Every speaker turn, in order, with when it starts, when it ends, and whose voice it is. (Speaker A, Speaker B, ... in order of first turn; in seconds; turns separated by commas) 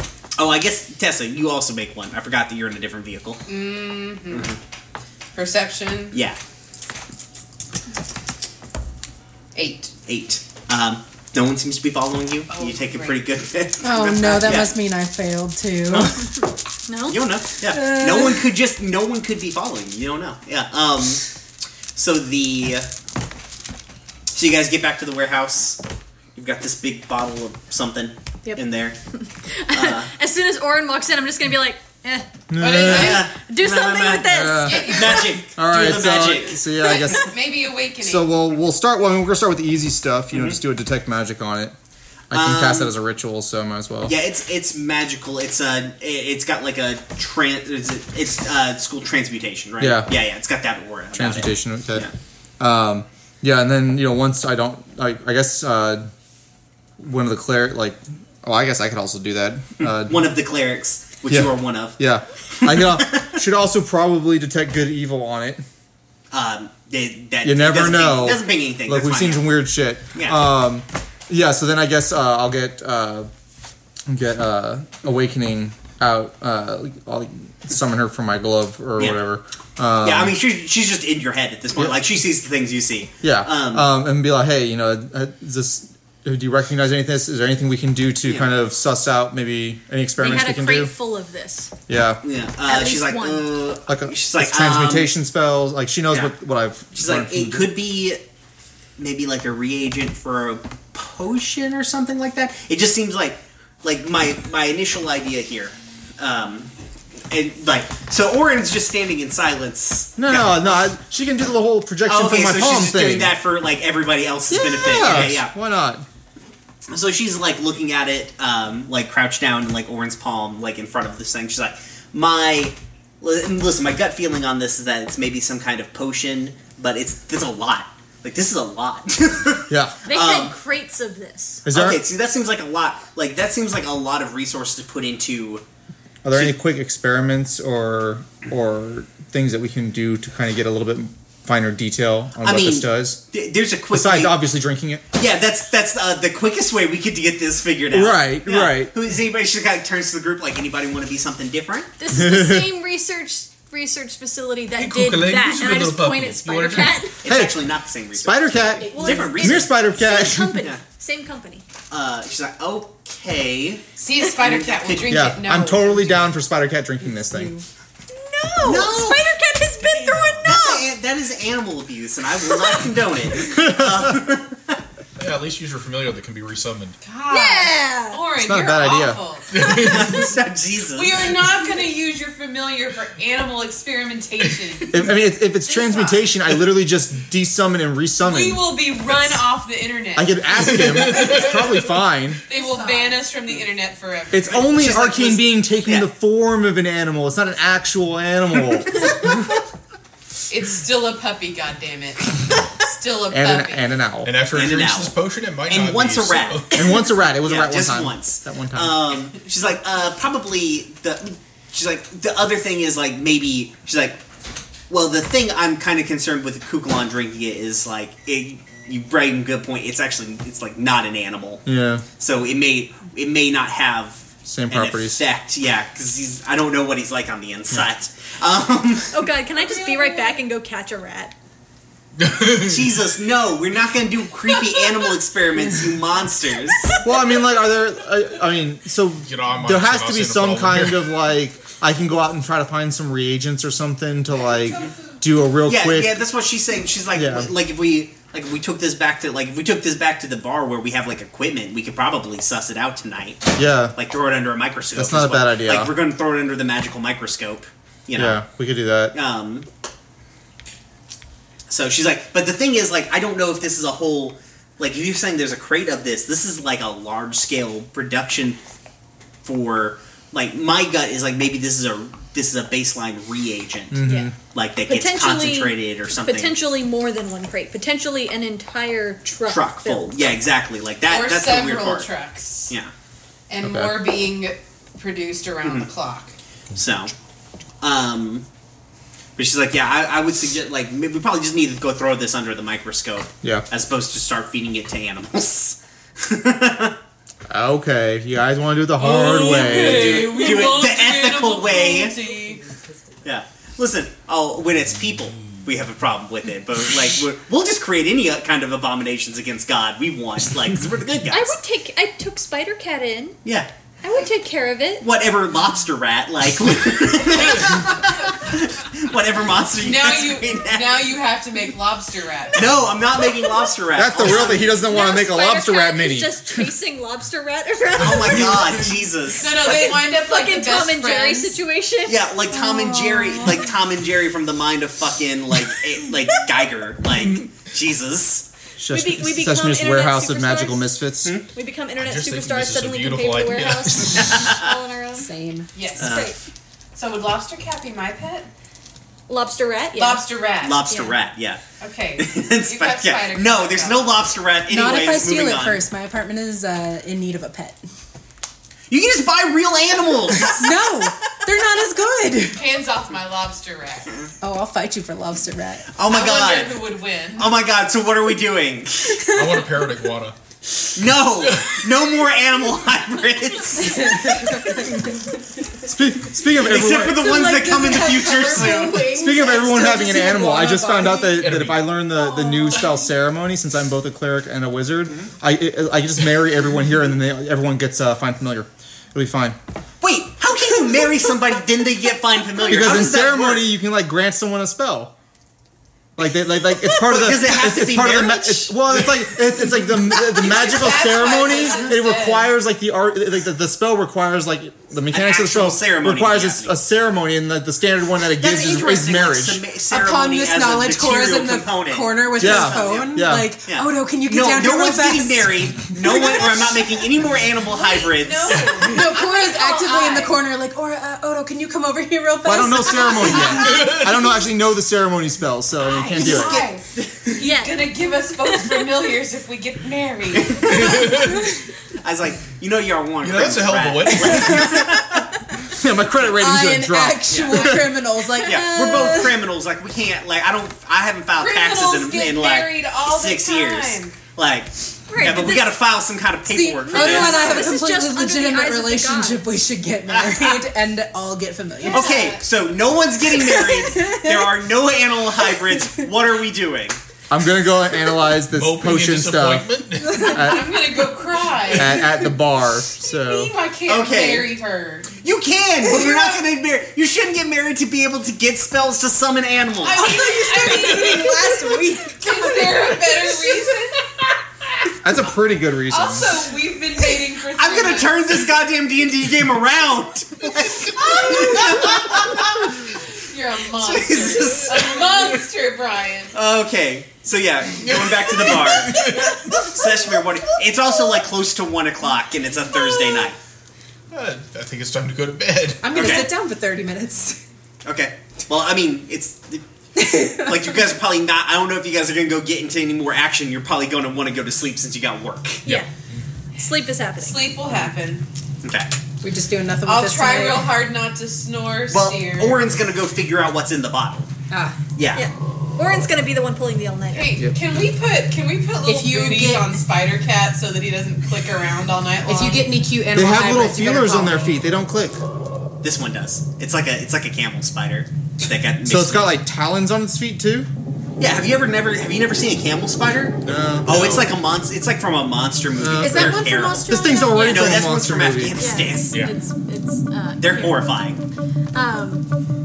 Speaker A: 0.4-3.5, Speaker B: 3.5-4.5, Speaker A: 4.3-4.6, Speaker B: 5.3-6.2, Speaker A: 6.1-6.4, Speaker B: 9.5-9.9, Speaker A: 10.1-14.8, Speaker B: 12.5-13.2, Speaker C: 13.8-16.3, Speaker A: 15.9-16.2, Speaker D: 16.9-17.3, Speaker A: 17.1-21.2, Speaker C: 17.7-18.4, Speaker A: 21.9-22.9, Speaker A: 24.3-25.8, Speaker A: 26.3-28.9, Speaker D: 29.1-35.3, Speaker A: 29.7-30.1, Speaker E: 32.5-33.3, Speaker B: 32.6-33.3, Speaker A: 32.8-36.6, Speaker E: 34.3-35.0, Speaker B: 34.6-35.3, Speaker E: 35.5-37.3, Speaker B: 36.8-38.4, Speaker E: 38.0-41.7, Speaker A: 40.3-40.6, Speaker E: 42.3-44.1, Speaker A: 42.3-42.9, Speaker A: 44.0-52.1, Speaker E: 49.8-50.1, Speaker E: 51.1-52.1, Speaker E: 52.6-56.1, Speaker E: 57.0-60.3, Speaker A: 60.0-62.0, Speaker E: 61.3-65.6, Speaker A: 62.5-63.4, Speaker A: 66.3-69.5, Speaker E: 67.4-73.3, Speaker A: 70.1-70.4, Speaker E: 74.1-80.4, Speaker A: 80.0-83.9, Speaker E: 81.7-82.0, Speaker E: 83.2-90.9, Speaker D: 90.2-91.7, Speaker E: 91.9-92.2, Speaker A: 92.2-95.1, Speaker D: 92.6-93.6, Speaker E: 93.9-97.7, Speaker A: 96.9-98.2, Speaker A: 99.0-106.7, Speaker A: 107.3-110.6, Speaker E: 110.2-113.4, Speaker A: 112.1-115.5, Speaker E: 114.5-116.0, Speaker A: 116.9-130.5, Speaker E: 129.7-130.0, Speaker D: 130.0-131.7, Speaker E: 131.6-132.0, Speaker A: 131.7-135.6, Speaker E: 136.2-143.2, Speaker A: 142.4-144.4, Speaker E: 143.9-145.0, Speaker A: 145.1-151.9, Speaker E: 147.9-148.9, Speaker D: 152.0-157.2, Speaker E: 152.1-152.7, Speaker F: 154.8-157.1, Speaker A: 157.2-159.9, Speaker E: 157.2-160.7, Speaker C: 158.8-159.3, Speaker D: 158.8-161.6, Speaker A: 160.6-160.8, Speaker A: 161.9-163.8, Speaker B: 164.0-166.3, Speaker A: 164.4-165.2, Speaker E: 165.1-167.5, Speaker C: 167.2-167.6, Speaker D: 168.1-170.9, Speaker A: 168.6-169.3, Speaker F: 169.9-170.5, Speaker A: 170.4-174.8, Speaker D: 172.4-172.9, Speaker E: 173.4-174.2, Speaker F: 175.2-177.0, Speaker B: 177.0-179.5, Speaker D: 177.3-178.2, Speaker E: 178.4-179.2, Speaker F: 179.5-180.1, Speaker D: 179.7-180.2, Speaker A: 179.8-181.2, Speaker B: 180.9-185.0, Speaker E: 184.9-189.4, Speaker B: 185.6-186.3, Speaker B: 188.2-191.5, Speaker E: 190.2-192.4, Speaker F: 190.7-191.7, Speaker B: 192.5-195.4, Speaker C: 192.5-193.1, Speaker E: 194.3-199.3, Speaker B: 200.5-203.9, Speaker E: 203.3-204.4, Speaker F: 204.2-206.8, Speaker A: 204.5-205.1, Speaker A: 205.7-214.2, Speaker E: 206.7-209.0, Speaker A: 214.9-221.6, Speaker E: 221.7-222.0, Speaker A: 222.2-229.2, Speaker E: 224.4-225.2, Speaker D: 229.1-231.3, Speaker B: 229.6-230.3, Speaker F: 232.2-232.9, Speaker A: 232.6-237.0, Speaker D: 234.6-235.0, Speaker E: 237.0-246.2, Speaker F: 239.2-241.1, Speaker A: 245.6-258.4, Speaker E: 247.1-247.5, Speaker E: 253.6-253.9, Speaker E: 254.9-255.9, Speaker E: 258.1-259.1, Speaker A: 259.1-259.7, Speaker A: 261.7-268.6, Speaker A: 269.4-276.6, Speaker E: 273.9-274.3, Speaker D: 274.0-274.3, Speaker D: 274.8-280.2, Speaker A: 279.4-282.1, Speaker B: 281.1-282.7, Speaker B: 283.5-286.3, Speaker E: 283.6-284.0, Speaker A: 286.7-287.1, Speaker A: 287.8-288.4, Speaker A: 289.4-297.0, Speaker E: 297.5-300.4, Speaker B: 299.0-302.6, Speaker A: 299.3-302.1, Speaker A: 303.2-311.6, Speaker D: 311.3-313.4, Speaker A: 313.4-313.7, Speaker D: 314.0-315.1, Speaker A: 315.0-321.1, Speaker B: 319.8-322.8, Speaker A: 322.5-324.8, Speaker E: 323.9-326.7, Speaker D: 324.2-328.9, Speaker A: 327.9-329.7, Speaker B: 329.4-331.6, Speaker D: 329.6-333.7, Speaker A: 332.1-338.4, Speaker E: 338.8-341.4, Speaker D: 338.9-340.9, Speaker D: 341.5-345.3, Speaker F: 342.0-344.5, Speaker A: 344.2-344.7, Speaker C: 345.2-345.7, Speaker B: 345.7-346.3, Speaker D: 346.0-346.4, Speaker A: 346.0-346.3, Speaker B: 346.9-348.5, Speaker D: 349.3-351.2, Speaker B: 349.9-350.9, Speaker A: 350.6-351.6, Speaker B: 351.8-354.3, Speaker A: 352.2-355.8, Speaker C: 354.7-357.8, Speaker A: 358.9-361.1, Speaker C: 360.4-362.6, Speaker B: 362.5-364.1, Speaker C: 364.4-365.8, Speaker A: 365.9-366.8, Speaker B: 366.1-367.6, Speaker A: 367.4-369.4, Speaker F: 369.2-370.4, Speaker A: 370.9-374.8, Speaker F: 371.4-371.9, Speaker C: 373.8-375.1, Speaker E: 375.8-377.5, Speaker A: 376.6-379.1, Speaker C: 377.2-381.4, Speaker D: 377.5-378.9, Speaker E: 378.9-389.6, Speaker F: 381.4-382.0, Speaker D: 382.1-383.0, Speaker A: 390.0-393.7, Speaker E: 392.6-395.1, Speaker E: 396.1-409.6, Speaker A: 396.8-400.4, Speaker B: 400.2-402.5, Speaker A: 405.1-406.8, Speaker A: 408.4-418.7, Speaker C: 409.9-416.8, Speaker E: 412.4-413.5, Speaker B: 417.8-420.4, Speaker F: 418.5-418.9, Speaker C: 418.8-424.0, Speaker E: 422.4-426.6, Speaker B: 425.8-430.7, Speaker A: 426.1-427.3, Speaker D: 427.4-428.0, Speaker A: 430.3-431.1, Speaker F: 430.6-431.5, Speaker A: 432.0-435.3, Speaker F: 433.2-434.8, Speaker E: 435.7-437.9, Speaker C: 436.4-439.3, Speaker A: 437.3-437.8, Speaker A: 438.4-447.7, Speaker D: 438.4-439.3, Speaker B: 441.4-444.1, Speaker D: 445.1-445.8, Speaker C: 446.5-452.1, Speaker D: 446.9-449.5, Speaker A: 450.1-450.7, Speaker B: 451.8-452.5, Speaker A: 451.9-457.0, Speaker C: 453.4-454.5, Speaker E: 457.3-460.9, Speaker F: 458.4-460.4, Speaker B: 460.1-462.2, Speaker E: 461.7-463.5, Speaker B: 463.0-465.1, Speaker A: 463.9-464.5, Speaker A: 465.2-470.1, Speaker B: 465.8-466.4, Speaker B: 469.8-474.9, Speaker C: 470.0-473.3, Speaker E: 475.0-476.4, Speaker B: 475.9-478.5, Speaker A: 477.5-482.9, Speaker B: 480.9-486.4, Speaker A: 483.8-485.3, Speaker A: 486.3-493.4, Speaker F: 487.8-489.8, Speaker F: 494.1-496.0, Speaker C: 495.8-497.4, Speaker A: 495.9-496.3, Speaker A: 497.8-505.7, Speaker C: 499.9-500.5, Speaker F: 505.6-506.2, Speaker D: 506.5-507.5, Speaker B: 507.1-508.2, Speaker A: 508.6-508.9, Speaker C: 509.2-510.7, Speaker B: 509.9-512.6, Speaker A: 511.9-514.3, Speaker C: 514.5-514.8, Speaker A: 515.0-515.3, Speaker D: 515.1-517.4, Speaker B: 517.1-522.7, Speaker C: 518.8-519.8, Speaker C: 522.3-524.5, Speaker E: 523.1-525.2, Speaker A: 525.8-529.3, Speaker E: 528.8-530.7, Speaker A: 531.2-539.2, Speaker F: 533.5-534.3, Speaker E: 533.5-534.1, Speaker E: 535.7-538.6, Speaker C: 536.0-537.5, Speaker D: 537.3-537.8, Speaker D: 538.6-540.9, Speaker A: 540.4-541.2, Speaker D: 541.7-542.2